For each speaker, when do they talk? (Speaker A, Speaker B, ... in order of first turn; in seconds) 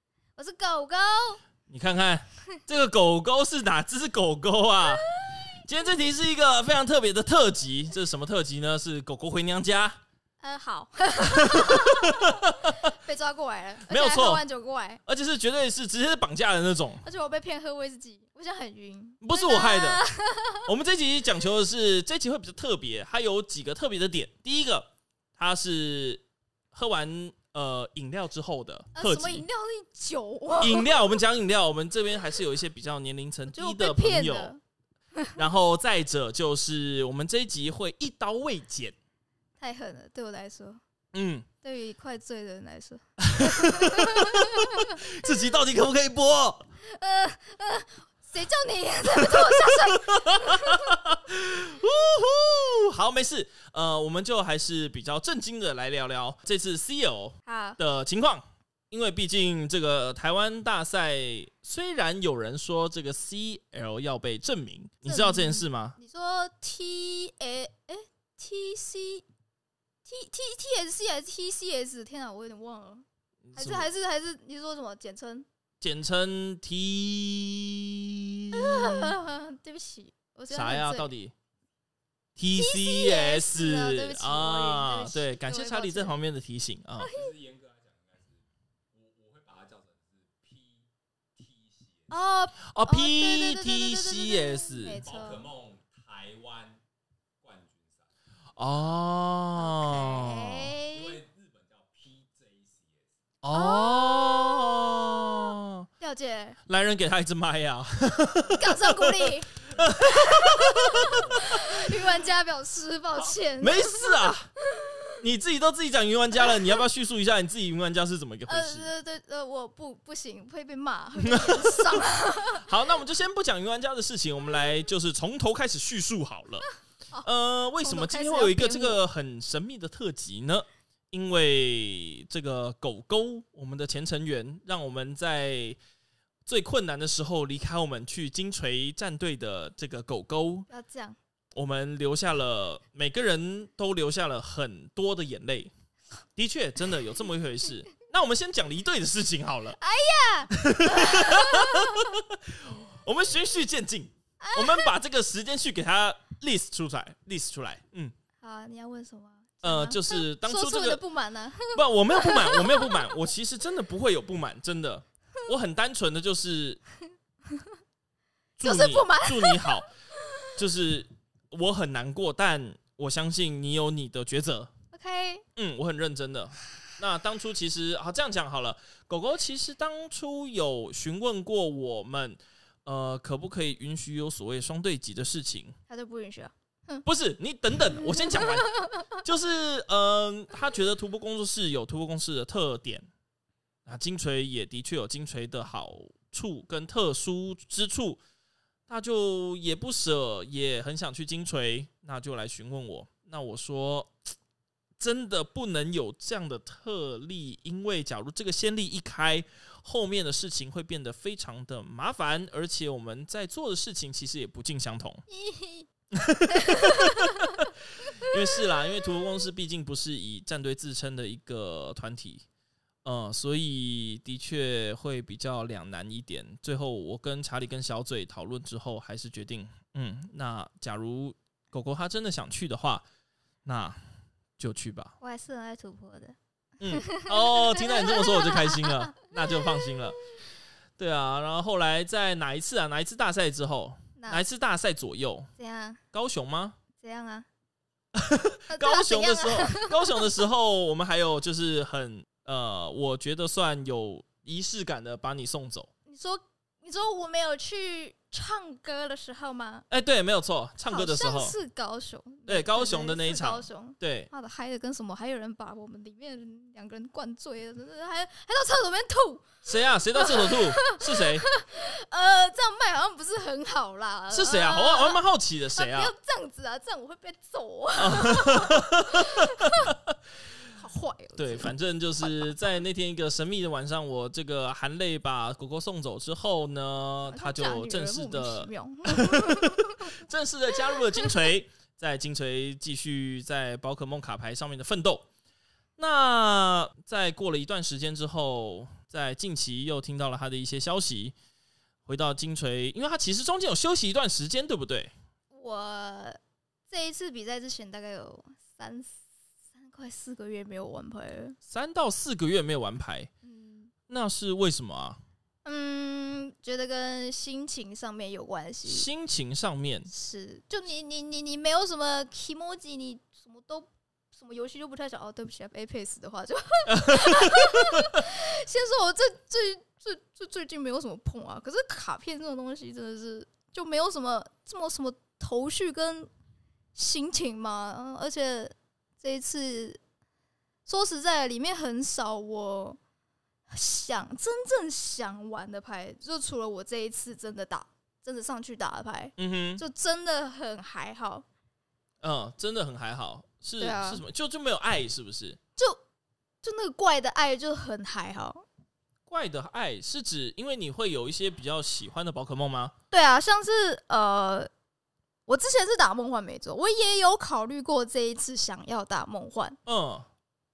Speaker A: 0.4-1.4, 10.4-15.0, 17.0-20.7, 28.9-30.9, 33.5-34.6, 39.6-40.8, 41.6-45.0, 46.8-50.9, 57.5-57.8, 65.0-69.2, 70.0-75.5, 78.5-81.1, 82.5-86.2, 87.0-87.3, 92.1-95.5, 99.6-101.2, 103.5-105.0, 106.0-106.6, 108.5-115.2, 116.4-116.8, 118.5-122.7, 127.8-129.0, 140.7-141.2, 149.8-152.1, 154.4-154.9, 158.4-163.1, 168.6-169.8, 174.9-175.4, 185.9-187.0, 188.0-188.9, 215.3-215.9, 216.5-217.6, 218.1-218.5, 235.2-236.3, 236.9-239.2, 244.2-244.4, 245.6-246.0, 247.0-247.5, 248.7-250.3, 256.1-259.9, 260.9-269.6, 270.1-275.2, 275.8-279.9, 280.7-282.5, 287.2-290.2, 305.5-309.2, 309.7-311.6, 313.4-313.9, 315.6-319.1, 320.1-336.3, 336.9-340.0, 340.9-343.0, 343.7-351.4, 353.8-354.2, 356.6-358.6, 363.1-364.7, 365.5-369.8
Speaker B: 1.7-10.0, 11.2-12.8, 13.9-14.4, 15.1-17.0, 19.2-20.0, 20.6-29.4, 30.6-34.5, 35.4-38.9, 41.1-41.5, 43.2-46.6, 49.2-66.0, 73.4-73.9, 75.8-79.2, 80.5-81.3, 82.4-87.1, 92.7-95.0, 98.6-100.8, 103.4-105.9, 106.7-111.6, 113.6-114.5, 115.2-118.9, 121.2-126.7, 127.2-135.8, 136.5-140.7, 141.6-145.7, 146.4-149.8, 150.5-158.1, 159.6-161.0, 161.7-166.8, 168.6-169.9, 170.6-174.7, 175.6-185.8, 187.1-193.1, 193.9-198.2, 198.9-204.1, 205.0-215.2, 216.1-222.4, 223.0-233.0, 233.7-234.0, 234.6-235.2, 236.8-240.2, 241.0-245.5, 246.1-246.8, 248.1-255.9, 259.9-261.6, 262.5-264.3, 269.6-271.4, 274.3-276.1, 278.0-280.1, 281.4-295.2, 296.0-301.3, 302.0-305.1, 311.7-313.3, 314.1-315.2, 318.8-320.1, 326.9-328.2, 349.4-349.8, 352.2-355.6, 359.3-362.9, 369.9-370.3
Speaker C: 87.1-92.2, 95.0-96.8, 97.4-98.1, 100.8-103.2, 110.9-111.4